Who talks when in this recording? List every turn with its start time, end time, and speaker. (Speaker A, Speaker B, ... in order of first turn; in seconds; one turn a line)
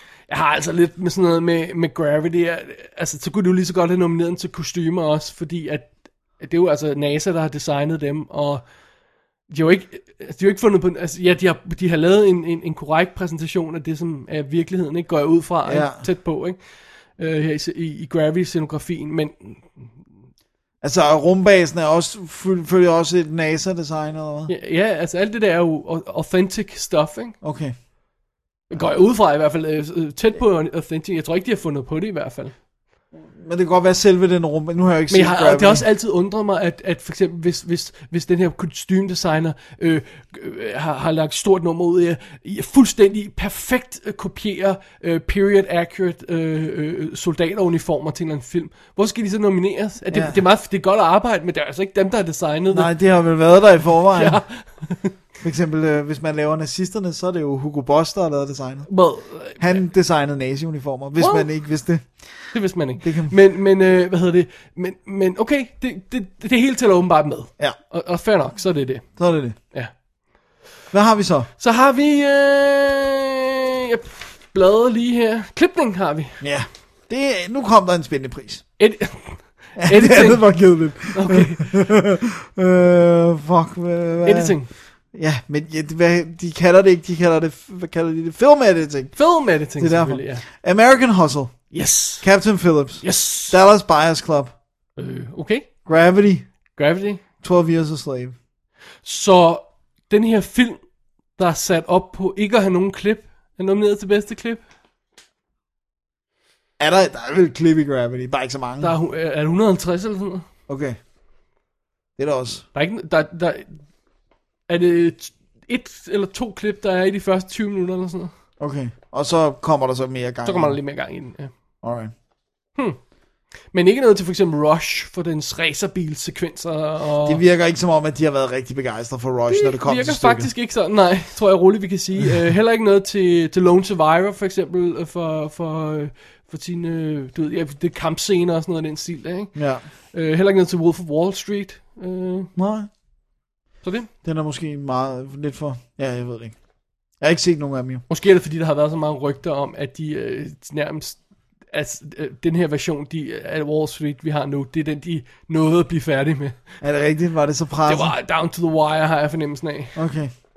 Speaker A: 0.3-8.6
Speaker A: 9.5-16.6
Speaker B: 15.6-16.0
Speaker A: 17.2-19.9
Speaker B: 20.8-24.5
Speaker A: 24.5-27.4
Speaker B: 27.4-27.7
Speaker A: 28.7-32.5
Speaker B: 33.4-35.9
Speaker A: 35.1-52.9
Speaker B: 50.1-50.4
Speaker B: 52.7-54.4
Speaker A: 54.1-55.1
Speaker B: 55.4-58.9
Speaker A: 58.9-59.8
Speaker B: 59.6-62.2
Speaker A: 61.2-61.5
Speaker A: 62.5-69.0
Speaker B: 63.0-63.3
Speaker B: 69.2-69.5
Speaker B: 70.9-71.5
Speaker A: 71.6-76.4
Speaker B: 76.4-78.6
Speaker A: 78.8-80.5
Speaker B: 79.8-84.6
Speaker A: 81.1-81.7
Speaker A: 84.2-84.7
Speaker B: 85.1-89.2
Speaker A: 89.2-90.4
Speaker B: 89.8-94.5
Speaker A: 91.7-92.2
Speaker A: 93.0-93.6
Speaker A: 95.0-95.7
Speaker B: 95.8-96.5
Speaker A: 96.8-97.2
Speaker B: 97.4-98.3
Speaker A: 99.0-100.8
Speaker A: 101.4-104.6
Speaker B: 106.8-108.9
Speaker A: 108.8-110.4
Speaker B: 110.7-111.0
Speaker B: 112.2-112.6
Speaker A: 112.7-113.8
Speaker A: 114.7-118.3
Speaker B: 118.6-120.8
Speaker A: 120.4-121.5
Speaker B: 121.8-122.1
Speaker A: 123.7-127.4
Speaker B: 127.2-130.5
Speaker A: 129.5-142.5
Speaker B: 139.5-139.8
Speaker B: 142.6-142.9
Speaker A: 143.8-144.1
Speaker B: 144.2-146.5
Speaker B: 147.2-148.0
Speaker A: 148.1-151.2
Speaker A: 151.7-156.6
Speaker B: 156.8-158.1
Speaker A: 157.8-159.9
Speaker B: 159.9-160.3